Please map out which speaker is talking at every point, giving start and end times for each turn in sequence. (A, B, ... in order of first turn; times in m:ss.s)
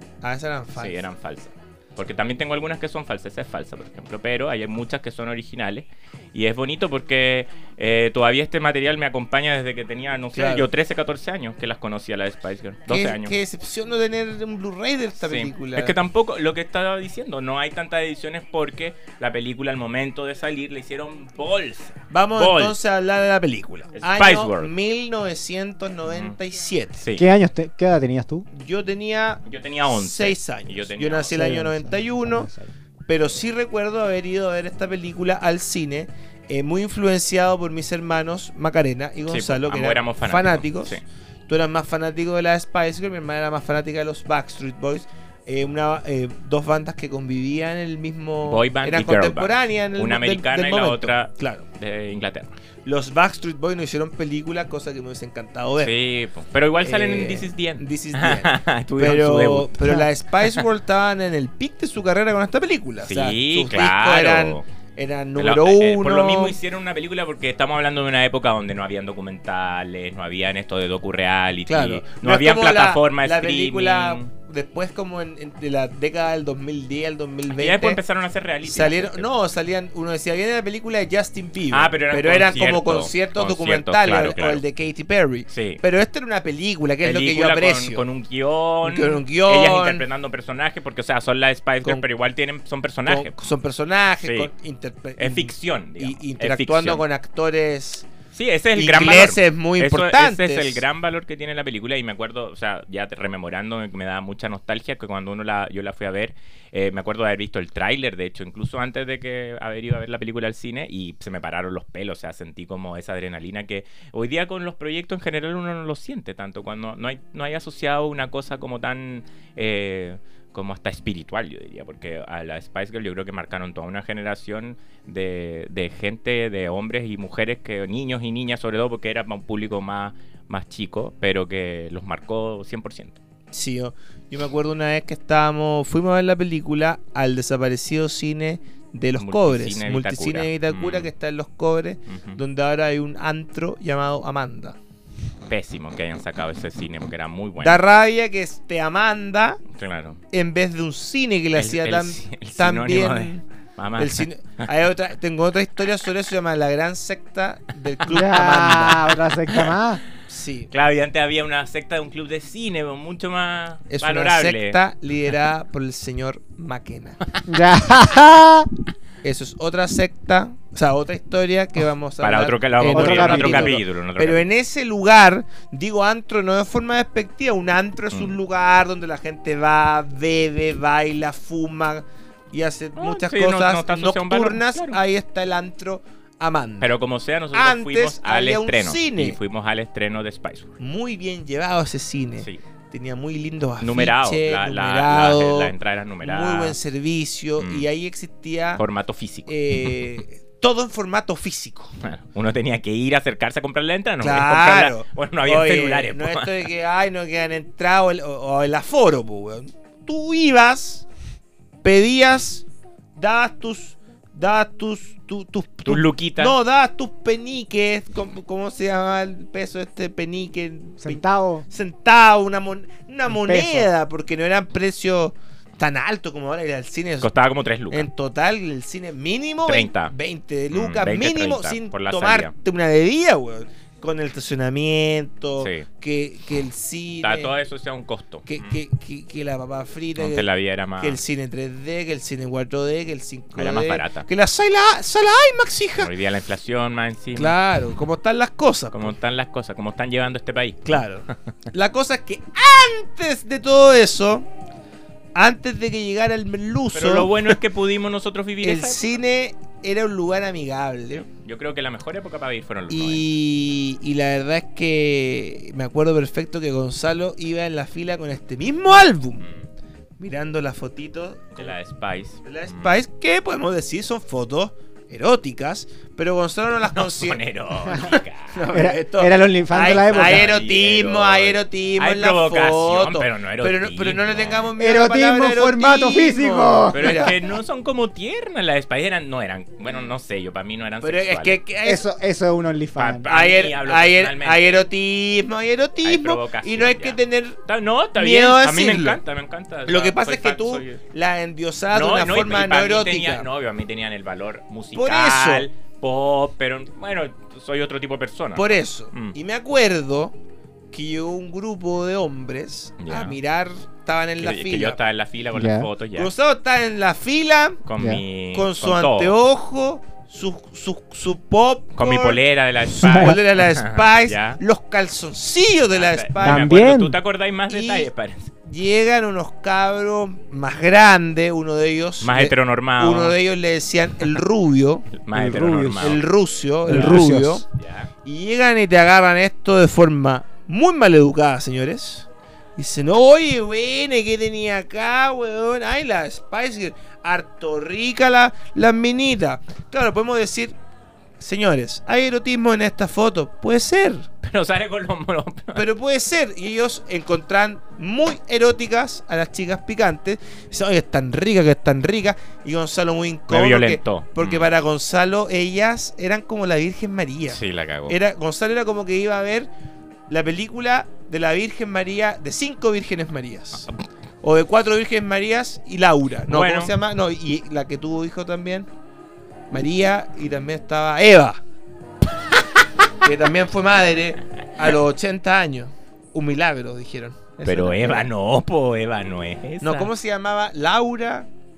0:00.2-0:01.0 A
0:00.8-0:13.4 B
0:10.3-0:10.7 A
0:12.9-0:15.9 A
0:15.2-0:22.8 B
0:22.1-0:27.0 A
0:24.0-0:24.7 B
0:26.1-0:26.4 B
0:27.2-0:28.5 C
0:28.5-0:32.5 A
0:29.4-0:31.4 B
0:31.3-0:32.7 C
0:33.1-0:51.6 A
0:39.3-0:41.0 B
0:48.4-0:52.5 B
0:52.8-0:55.9 A
0:55.8-1:00.6 B
0:56.8-1:06.5 A
1:03.0-1:04.6 B
1:05.4-1:14.3 B
1:11.7-1:18.0 A
1:17.5-1:19.3 B
1:18.6-1:28.0 A
1:21.7-1:24.6 B
1:25.5-1:25.8 B
1:27.0-1:33.4 B
1:28.8-1:30.0 A
1:33.0-1:38.1 A
1:34.2-1:34.5 B
1:35.2-1:37.0 B
1:38.3-2:13.2 B
1:38.8-1:40.8 A
2:13.5-2:24.8 A
2:19.2-2:21.1 B
2:22.1-2:22.4 B
2:25.5-2:27.8 B
2:27.6-2:29.6 A
2:29.7-2:30.2 B
2:30.3-2:33.4 A
2:31.5-2:34.6 B
2:34.0-2:39.1 A
2:38.1-2:40.0 C
2:39.5-2:39.8 B
2:40.3-2:40.7 A
2:40.7-2:44.8 B
2:43.9-2:47.2 A
2:47.4-2:48.7 C
2:49.2-3:06.9 A
2:52.2-2:54.4 B
2:52.9-2:53.8 C
3:03.0-3:05.0 B
3:06.8-3:10.7 B
3:07.5-3:09.4 A
3:10.8-3:18.8 A
3:13.8-3:16.8 B
3:17.6-3:17.8 B
3:18.8-3:20.0 B
3:19.5-3:21.9 A
3:22.0-3:26.6 B
3:24.2-3:31.0 A
3:31.8-3:32.6 A
3:33.2-3:47.3 A
3:35.9-3:36.6 B
3:41.0-3:41.6 C
3:43.3-3:43.9 C
3:47.2-3:48.1 B
3:47.9-3:57.5 A
3:49.7-3:50.1 B
3:50.7-3:52.5 B
3:55.6-3:55.8 B
3:57.2-3:58.8 B
3:58.5-4:00.5 A
4:00.2-4:01.2 B
4:01.0-4:06.1 A
4:03.6-4:04.3 B
4:06.0-4:07.5 B
4:07.3-4:09.1 A
4:08.9-4:11.3 B
4:10.8-4:14.5 A
4:15.4-4:17.6 A
4:16.9-4:19.0 B
4:18.6-4:21.2 A
4:21.1-4:23.2 B
4:22.9-4:29.4 A
4:30.2-4:31.8 A
4:31.6-4:32.9 B
4:32.4-4:37.4 A
4:37.0-4:38.6 B
4:38.5-4:47.3 A
4:38.7-4:40.6 C
4:39.9-4:44.7 B
4:44.8-4:47.3 C
4:46.9-4:51.6 B
4:51.0-4:52.0 A
4:51.8-4:53.3 C
4:53.0-4:54.9 B
4:53.3-4:57.6 A
4:56.0-5:01.0 B
4:58.2-4:59.2 A
4:59.9-5:03.4 A
5:01.9-5:09.4 B
5:04.9-5:05.7 A
5:08.6-5:10.4 A
5:10.9-5:15.0 A
5:13.0-5:13.4 B
5:14.4-5:16.3 B
5:15.5-5:15.9 C
5:16.2-5:17.8 A
5:17.8-5:19.3 B
5:18.5-5:22.4 A
5:22.0-5:24.6 B
5:22.9-5:26.7 A
5:23.0-5:23.4 C
5:25.9-5:28.5 B
5:26.4-5:27.2 C
5:27.7-5:28.1 A
5:28.6-5:35.1 A
5:32.2-5:33.4 B
5:35.2-5:36.2 B
5:35.3-5:36.2 C
5:36.0-5:37.6 A
5:36.9-5:37.6 C
5:36.9-5:38.1 B
5:38.2-5:50.8 A
5:51.4-5:54.3 A
5:54.4-5:55.9 B
5:55.7-6:09.7 A
6:03.5-6:04.7 B
6:07.5-6:08.2 B
6:10.3-6:13.9 A
6:14.4-6:18.9 A
6:16.5-6:16.9 B
6:19.7-6:21.6 A
6:23.2-6:28.3 A
6:27.6-6:30.1 B
6:29.8-6:31.5 A